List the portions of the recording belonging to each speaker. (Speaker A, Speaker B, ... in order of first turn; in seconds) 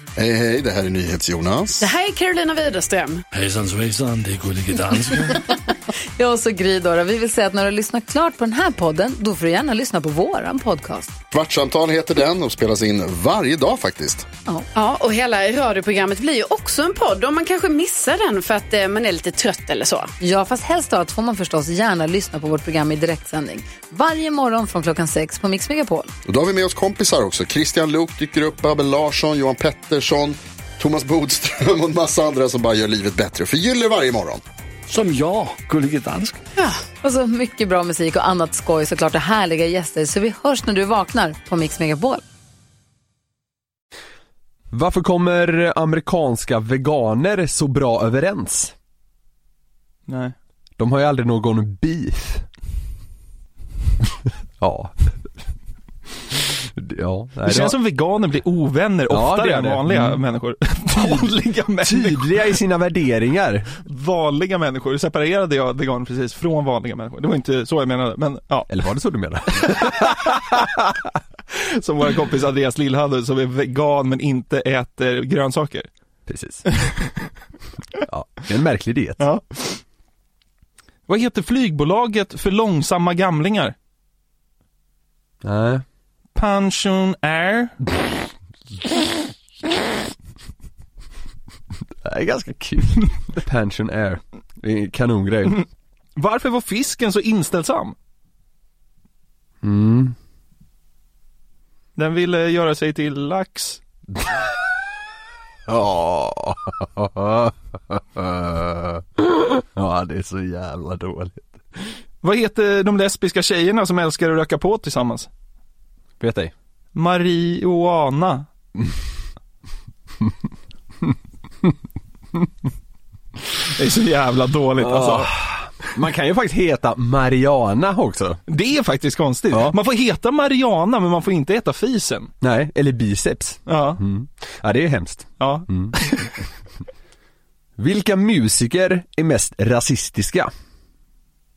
Speaker A: 0.2-1.9, 11.3-14.2, 26.2-34.4
Speaker B: 1.8-3.2, 14.7-20.1
Speaker C: 3.3-5.4, 34.9-36.4
Speaker D: 6.2-11.2, 20.2-26.1, 37.0-42.2
Speaker E: 44.7-48.7, 50.8-52.4, 54.6-54.9, 56.3-57.8, 59.1-60.2, 60.9-63.7, 68.7-70.9, 76.3-76.6, 78.0-79.2, 85.4-85.8, 92.0-95.6, 99.6-100.2, 105.7-111.9, 116.2-116.5, 124.8-128.4, 129.5-129.8, 132.4-135.9, 137.8-140.5
Speaker F: 50.1-50.3, 57.4-62.5, 63.8-68.7, 69.6-70.6, 71.5-75.9, 76.8-77.1, 79.2-79.8, 81.1-83.7, 86.3-87.7, 96.2-98.0, 102.0-103.8, 112.2-115.3, 116.9-118.5, 123.7-125.3, 128.5-132.3, 133.7-134.0, 135.4-136.3